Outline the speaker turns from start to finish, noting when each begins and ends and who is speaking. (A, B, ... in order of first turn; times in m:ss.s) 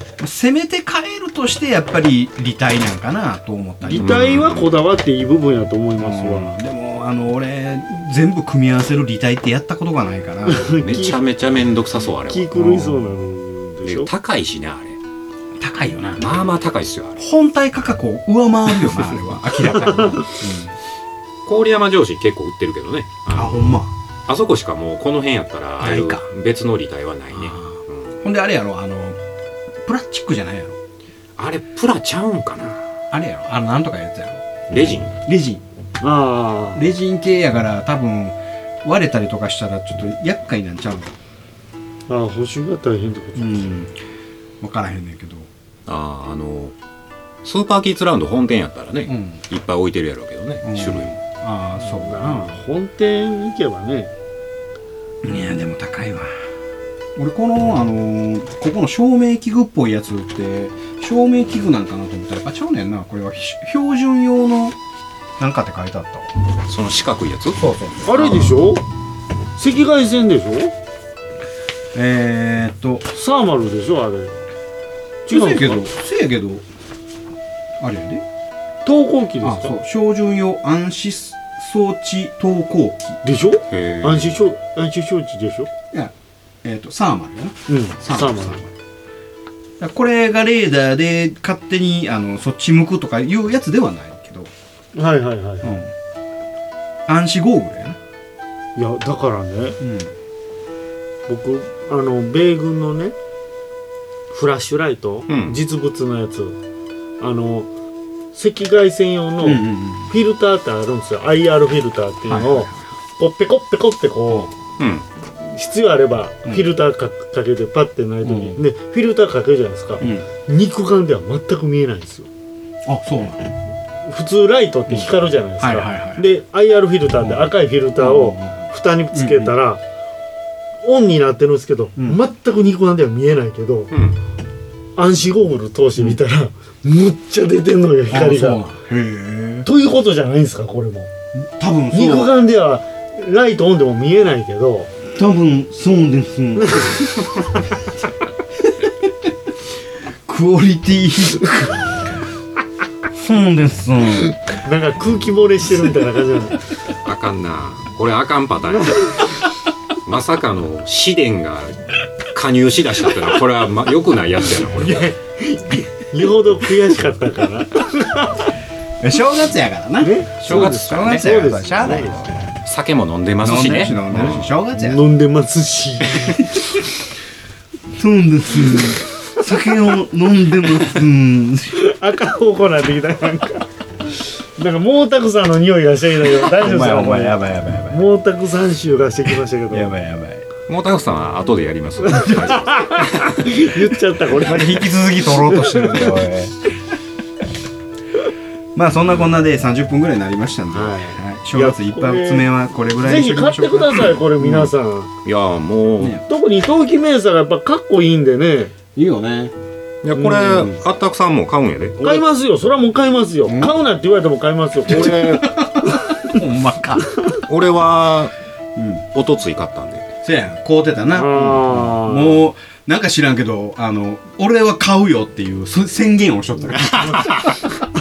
0:00.2-0:04.1 A
0:03.8-0:06.5 B
0:03.9-0:04.7 C
0:06.0-0:10.8 A
0:10.4-0:11.2 B
0:10.8-0:12.5 C
0:12.3-0:14.1 B
0:12.5-0:13.2 A
0:13.8-0:15.0 C
0:15.6-0:16.3 A
0:16.2-0:17.2 C
0:17.2-0:20.7 A
0:19.7-0:20.3 B
0:21.4-0:28.1 C
0:23.3-0:23.9 A
0:25.8-0:26.2 A
0:27.3-0:29.2 A
0:29.8-0:30.8 A
0:31.4-0:32.8 C
0:33.1-0:35.6 A
0:34.7-0:35.1 C
0:36.0-0:36.8 B
0:36.7-0:41.1 A
0:42.1-0:43.7 B
0:43.4-0:44.0 A
0:44.6-0:45.5 A
0:45.9-0:46.7 C
0:47.4-0:51.2 C
0:49.1-0:49.4 A
0:50.6-0:52.5 A
0:51.8-0:54.1 B
0:55.2-0:56.3 A
0:57.2-1:04.8 A
1:05.4-1:06.3 A
1:06.6-1:07.6 C
1:07.6-1:08.5 A
1:08.0-1:08.8 B
1:09.6-1:10.7 B
1:11.9-1:13.1 A
1:13.1-1:14.3 B
1:15.2-1:15.8 B
1:15.3-1:16.6 A
1:17.8-1:18.2 A
1:18.8-1:19.8 B
1:19.4-1:23.2 A
1:23.2-1:25.7 B
1:23.7-1:24.4 C
1:26.6-1:28.7 A
1:27.7-1:28.6 B
1:29.8-1:34.5 A
1:34.9-1:35.7 B
1:35.6-1:35.9 A
1:37.1-1:38.0 A
1:38.8-1:39.8 B
1:39.8-1:40.1 A
1:41.3-1:43.1 B
1:44.3-1:46.6 B
1:45.3-1:45.6 C
1:47.2-1:47.7 B
1:48.3-1:54.5 B
1:49.4-1:50.1 A
1:52.3-1:52.9 A
1:54.8-1:55.0 C
1:55.5-2:02.3 B
1:58.2-1:58.6 A
2:00.0-2:00.3 A
2:02.8-2:03.4 A
2:04.0-2:09.8 B
2:05.6-2:06.2 A
2:07.2-2:09.5 A
2:10.8-2:13.9 B
2:13.9-2:14.2 C
2:15.0-2:18.6 B
2:18.1-2:19.7 A
2:19.6-2:21.1 B
2:21.3-2:22.4 A
2:21.9-2:24.9 B
2:25.1-2:27.3 A
2:26.6-2:27.1 B
2:28.7-2:29.1 A
2:30.2-2:32.1 A
2:33.1-2:34.3 A
2:34.1-2:36.6 B
2:37.0-2:39.4 C
2:40.0-2:41.8 C
2:42.3-2:45.1 C
2:44.8-2:48.5 B
2:49.0-2:52.4 A
2:50.0-2:52.3 B
2:50.4-2:51.3 C
2:52.6-2:54.6 C
2:53.4-2:55.0 A
2:54.7-2:56.7 B
2:57.9-3:01.8 A
3:01.8-3:03.7 B
3:04.6-3:09.9 B
3:06.4-3:08.0 A
3:09.7-3:10.4 A
3:10.7-3:13.4 C
3:12.0-3:16.2 B
3:14.3-3:16.6 A
3:18.7-3:24.7 A
3:20.7-3:22.5 B
3:23.0-3:25.1 B
3:25.2-3:26.2 C
3:26.3-3:28.7 B
3:28.9-3:29.5 A
3:30.0-3:32.2 C
3:30.1-3:30.8 A
3:32.0-3:36.4 B
3:33.4-3:33.7 A
3:34.9-3:37.1 A
3:37.4-3:38.3 C
3:38.8-3:39.0 A
3:39.1-3:40.1 C
3:40.2-3:47.5 A
3:41.1-3:42.4 B
3:46.7-3:47.6 C